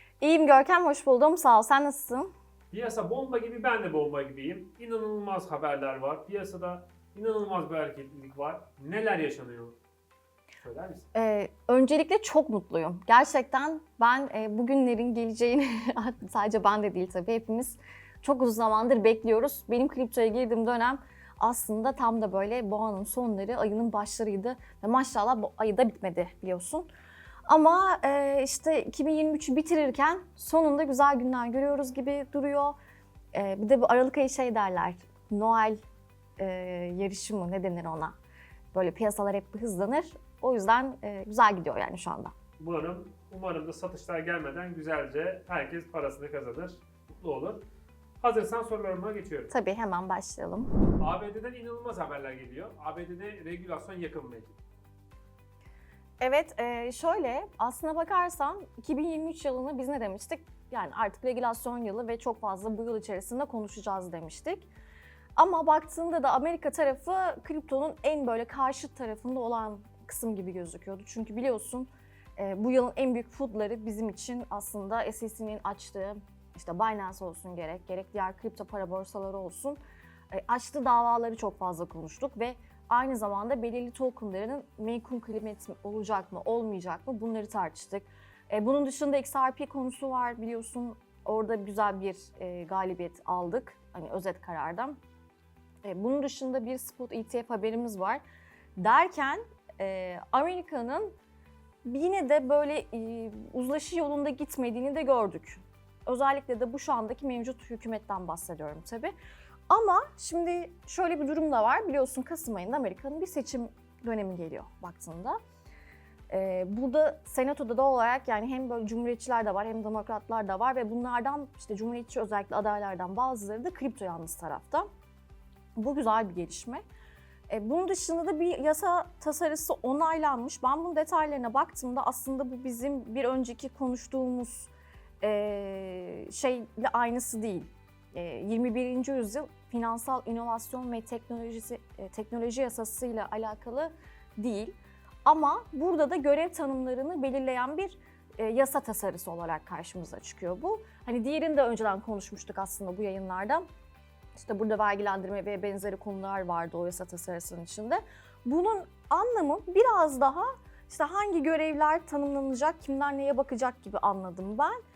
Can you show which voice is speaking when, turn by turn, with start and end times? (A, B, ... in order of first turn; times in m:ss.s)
0:00.2-0:02.3 A
0:02.7-0:09.8 B
0:10.6-0:11.1 B
0:11.1-0:26.9 A
0:27.5-0:32.8 A
0:33.3-0:35.8 A
0:36.4-0:38.2 A
0:38.7-0:42.3 A
0:42.6-0:47.6 B
0:48.2-0:49.5 B
0:49.5-0:50.7 A
0:51.0-0:54.6 B
0:56.2-1:04.7 A
1:05.4-1:19.8 A
1:20.3-1:35.0 A
1:35.8-1:38.2 A
1:38.8-1:41.1 A
1:41.8-1:49.1 A
1:49.7-1:55.4 A
1:56.3-2:04.8 A
2:05.8-2:06.8 A
2:07.5-2:33.6 A
2:34.4-2:44.8 A